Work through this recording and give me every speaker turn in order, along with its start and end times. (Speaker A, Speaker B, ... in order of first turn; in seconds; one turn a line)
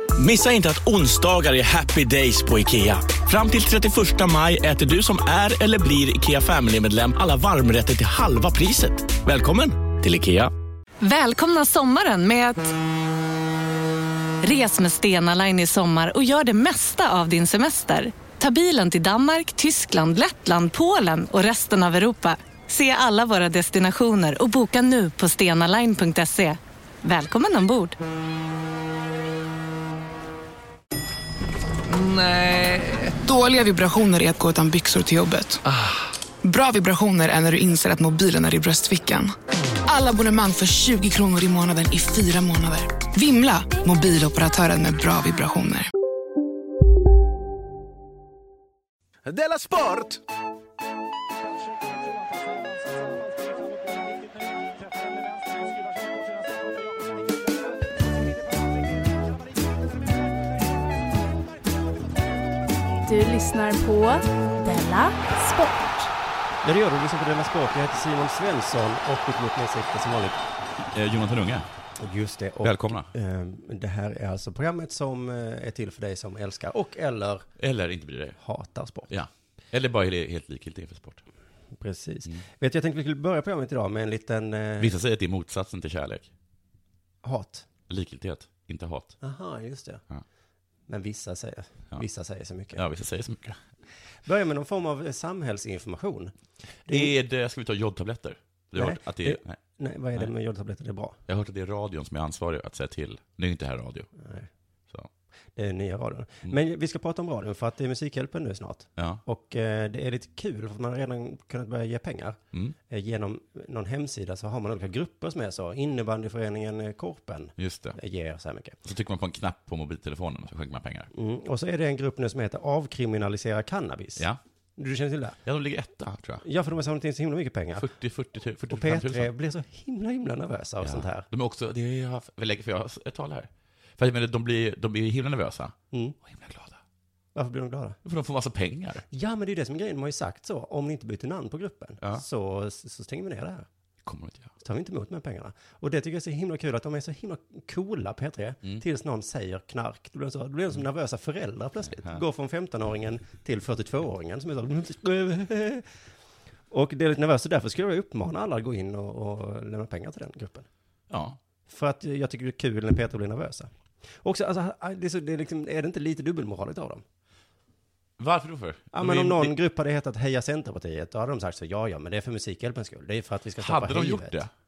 Speaker A: 0.1-10.5
Speaker B: 11.0-12.7
Speaker B: 14.4-28.0
Speaker C: 33.2-35.6
Speaker C: 36.4-45.9
Speaker A: 49.5-49.9
Speaker D: 63.0-66.1
Speaker E: 66.6-70.4
Speaker F: 70.9-71.7
Speaker E: 72.0-77.5
Speaker F: 72.6-73.1
Speaker F: 77.6-78.4
Speaker E: 78.4-79.1
Speaker F: 79.1-81.2
Speaker E: 81.8-84.9
Speaker F: 84.8-86.3
Speaker E: 87.2-87.7
Speaker F: 87.9-89.1
Speaker E: 89.2-90.0
Speaker E: 90.9-92.8
Speaker F: 92.7-93.6
Speaker E: 94.2-96.3
Speaker E: 96.8-97.1
Speaker F: 96.9-99.6
Speaker E: 98.7-101.2
Speaker F: 101.3-104.1
Speaker E: 104.2-104.5
Speaker E: 105.5-112.4
Speaker E: 112.9-118.8
Speaker F: 117.6-118.0
Speaker F: 118.8-121.1
Speaker E: 121.1-124.2
Speaker E: 124.8-125.4
Speaker F: 125.4-126.4
Speaker E: 126.4-127.9
Speaker F: 127.8-129.3
Speaker E: 128.7-131.3
Speaker F: 130.8-136.8
Speaker E: 135.9-136.2
Speaker E: 137.3-138.0
Speaker F: 138.0-139.0
Speaker E: 139.1-143.7
Speaker F: 144.0-144.5
Speaker E: 144.6-155.9
Speaker E: 156.7-160.7
Speaker F: 161.1-161.4
Speaker E: 161.7-163.7
Speaker E: 164.2-167.0
Speaker F: 168.2-169.5
Speaker E: 168.9-174.4
Speaker F: 173.6-174.5